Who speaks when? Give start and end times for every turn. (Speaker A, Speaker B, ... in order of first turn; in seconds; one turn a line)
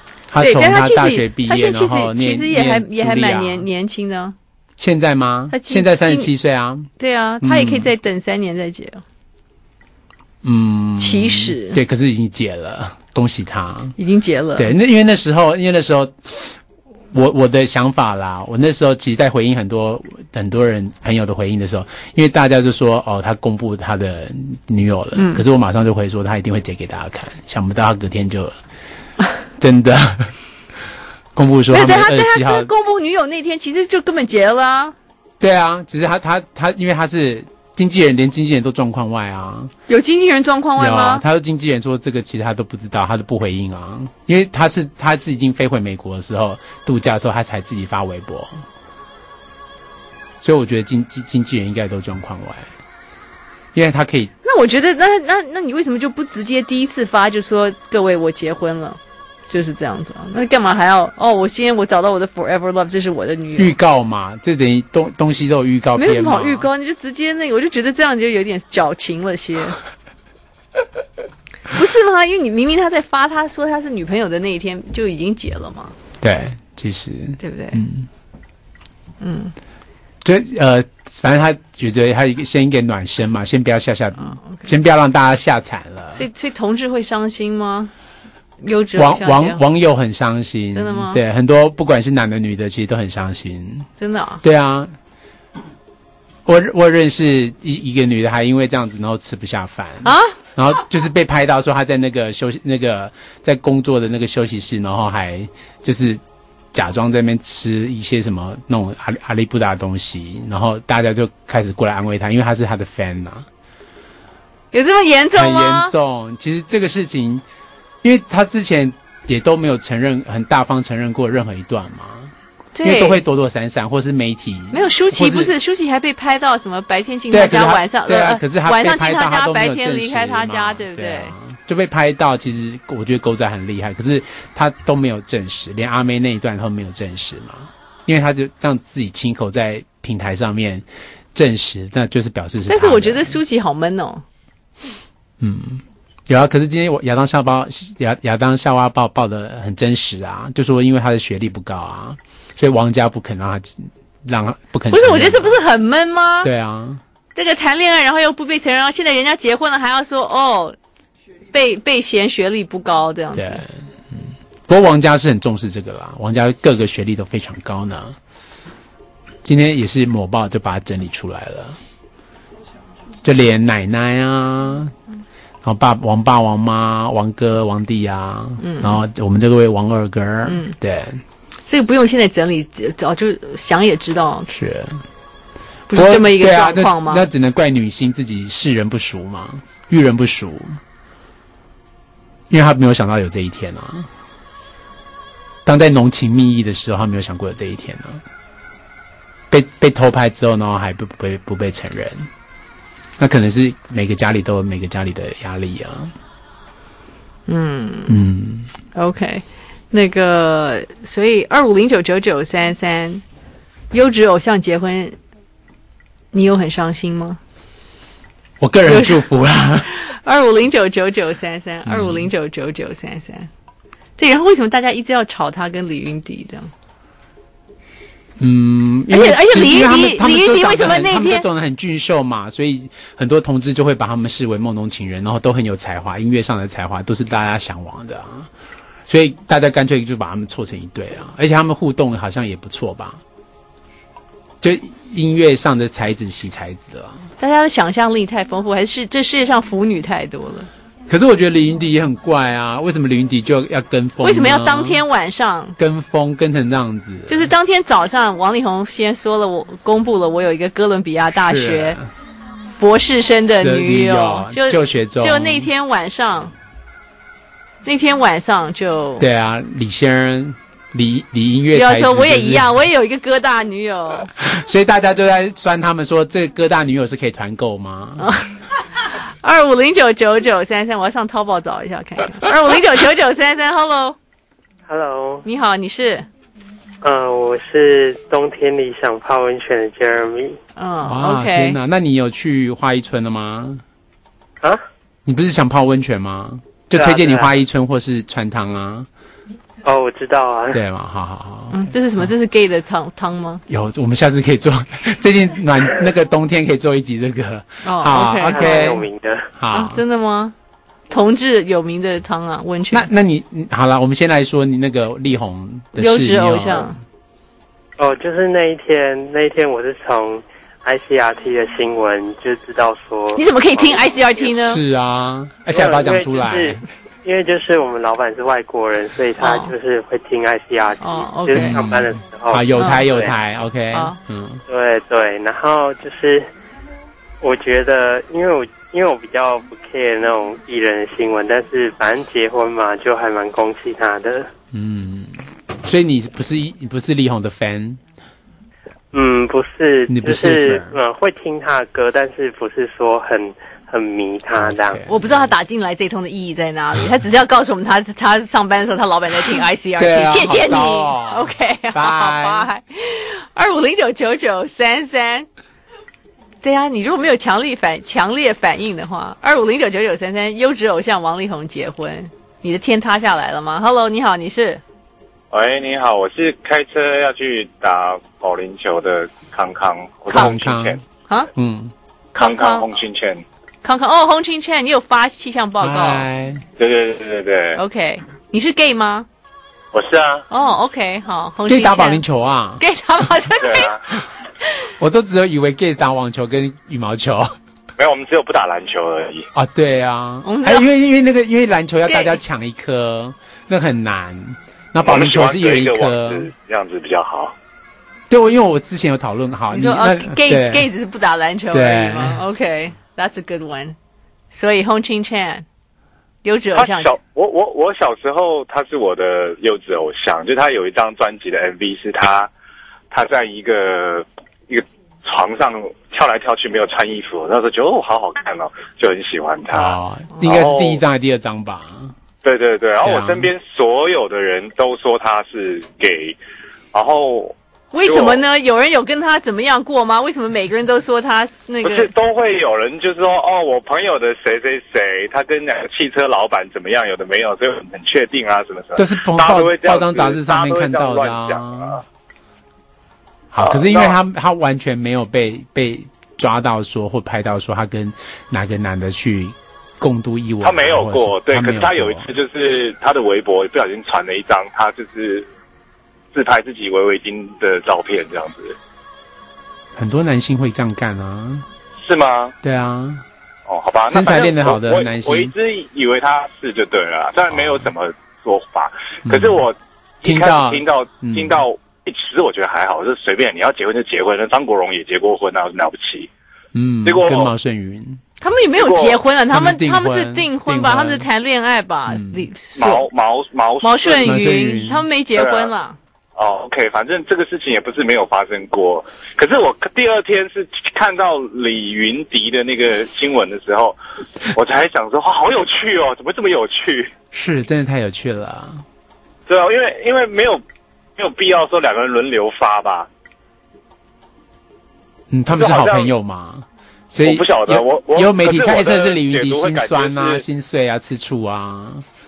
Speaker A: 0.3-3.6
Speaker B: 0.4-4.3
Speaker A: 4.8-6.9
Speaker B: 5.5-6.3
Speaker B: 7.0-9.0
Speaker A: 7.4-7.9
Speaker A: 10.4-13.9
Speaker B: 11.0-11.8
Speaker B: 14.0-14.7
Speaker A: 14.6-16.5
Speaker A: 17.1-28.6
Speaker B: 25.1-25.4
Speaker A: 29.6-30.3
Speaker A: 31.3-32.7
Speaker B: 31.7-34.9
Speaker A: 35.4-39.7
Speaker B: 39.9-41.2
Speaker A: 40.8-48.6
Speaker A: 50.4-52.7
Speaker A: 53.7-54.3
Speaker B: 54.4-59.0
Speaker B: 59.5-63.7
Speaker A: 63.6-66.7
Speaker B: 66.0-69.8
Speaker B: 71.7-75.9
Speaker A: 76.2-78.1
Speaker B: 77.4-77.8
Speaker B: 79.2-79.5
Speaker A: 80.2-86.3
Speaker B: 84.2-84.6
Speaker B: 86.1-87.9
Speaker B: 88.6-89.6
Speaker A: 89.0-93.9
Speaker B: 90.7-91.2
Speaker B: 94.0-94.4
Speaker A: 94.4-94.9
Speaker A: 96.4-106.2
Speaker B: 100.0-100.4
Speaker A: 106.7-113.5
Speaker B: 114.7-115.9
Speaker A: 115.3-117.4
Speaker A: 118.0-125.5
Speaker B: 122.7-123.2
Speaker B: 124.7-131.3
Speaker A: 127.3-143.4
Speaker B: 142.7-144.2
Speaker A: 145.4-155.6
Speaker B: 154.9-156.5
Speaker A: 156.4-157.0
Speaker B: 157.3-160.8
Speaker B: 161.5-163.6
Speaker A: 163.3-168.2
Speaker A: 169.4-171.8
Speaker A: 173.2-174.9
Speaker A: 175.6-181.2
Speaker B: 178.6-179.0
Speaker B: 180.4-180.8
Speaker B: 181.7-184.5
Speaker A: 184.5-185.0
Speaker A: 185.9-190.8
Speaker B: 185.9-187.2
Speaker A: 192.5-194.1
Speaker A: 195.6-198.2
Speaker A: 199.5-202.3
Speaker A: 203.2-206.1
Speaker B: 207.5-208.2
Speaker A: 208.1-208.7
Speaker B: 208.9-213.2
Speaker B: 213.9-215.2
Speaker B: 216.3-217.4
Speaker A: 218.6-219.9
Speaker B: 218.8-219.2
Speaker B: 219.8-223.5
Speaker A: 221.8-222.3
Speaker B: 224.2-226.7
Speaker A: 228.4-238.5
Speaker B: 229.1-231.4
Speaker A: 239.1-243.2
Speaker A: 244.6-247.2
Speaker B: 247.4-250.7
Speaker A: 251.1-255.0
Speaker B: 254.2-255.8
Speaker A: 255.8-257.5
Speaker B: 257.3-262.0
Speaker A: 261.4-262.1
Speaker B: 262.8-266.5
Speaker A: 263.6-265.7
Speaker B: 267.8-269.2
Speaker A: 269.2-272.8
Speaker B: 271.7-274.3
Speaker A: 274.3-278.3
Speaker B: 278.2-284.2
Speaker C: 284.9-285.4
Speaker B: 285.4-286.3
Speaker C: 287.0-290.6
Speaker B: 290.8-291.8
Speaker A: 291.0-293.8
Speaker A: 295.2-299.1
Speaker C: 296.9-297.5
Speaker C: 299.8-300.8
Speaker A: 300.7-302.2
Speaker B: 301.7-303.6
Speaker A: 303.7-310.0
Speaker B: 307.8-309.0
Speaker C: 308.4-309.5
Speaker B: 309.7-310.5
Speaker B: 311.1-313.1
Speaker A: 312.9-316.9
Speaker B: 316.0-317.0
Speaker C: 318.0-324.5
Speaker B: 323.3-324.8
Speaker A: 324.6-326.8
Speaker C: 325.7-333.3
Speaker B: 329.4-329.7
Speaker B: 331.0-331.8
Speaker A: 331.5-334.6
Speaker B: 332.8-333.1
Speaker C: 334.7-336.5
Speaker C: 337.4-344.5
Speaker A: 344.7-348.0
Speaker C: 349.1-355.0
Speaker A: 350.1-350.9
Speaker A: 354.5-355.5
Speaker B: 355.1-365.5
Speaker A: 360.0-362.7
Speaker B: 366.6-374.8
Speaker D: 375.5-381.0
Speaker A: 380.3-381.0
Speaker A: 381.5-381.9
Speaker B: 382.3-382.9
Speaker D: 382.4-383.4
Speaker B: 383.8-386.2
Speaker A: 385.8-386.6
Speaker D: 386.8-387.8
Speaker B: 387.8-389.3
Speaker D: 389.9-390.4
Speaker B: 390.5-392.2
Speaker A: 391.7-392.8
Speaker B: 392.8-394.0
Speaker D: 393.6-394.0
Speaker A: 395.0-397.6
Speaker D: 398.0-399.5
Speaker A: 399.5-406.5
Speaker B: 400.4-400.9
Speaker B: 402.1-402.3
Speaker D: 405.0-407.5
Speaker A: 408.3-410.9
Speaker B: 409.7-413.9
Speaker A: 411.7-412.4
Speaker B: 414.5-415.6
Speaker B: 416.4-417.1
Speaker D: 416.7-422.5
Speaker D: 423.1-431.0
Speaker A: 429.7-432.1
Speaker D: 432.4-436.4
Speaker A: 433.0-433.5
Speaker D: 436.9-438.4
Speaker B: 437.9-442.1
Speaker D: 441.8-452.0
Speaker A: 449.0-451.9
Speaker A: 453.5-462.4
Speaker D: 453.6-454.1
Speaker D: 460.6-465.5
Speaker D: 466.3-468.8
Speaker A: 469.9-471.7
Speaker D: 472.0-472.5
Speaker A: 472.6-473.2
Speaker D: 473.6-486.3
Speaker A: 474.1-475.5
Speaker A: 477.5-477.9
Speaker A: 479.3-479.6
Speaker A: 480.2-481.6
Speaker A: 486.7-488.2
Speaker D: 487.0-487.5
Speaker B: 488.4-493.1
Speaker D: 488.8-489.2
Speaker A: 489.5-491.2
Speaker A: 492.1-492.5
Speaker D: 492.8-494.4
Speaker B: 493.8-496.0
Speaker A: 494.2-495.1
Speaker D: 495.3-495.7
Speaker D: 496.4-504.0
Speaker D: 504.5-507.1
Speaker A: 507.3-508.8
Speaker D: 509.5-510.6
Speaker D: 511.2-513.1
Speaker A: 515.3-522.0
Speaker D: 515.5-516.1
Speaker D: 517.2-520.4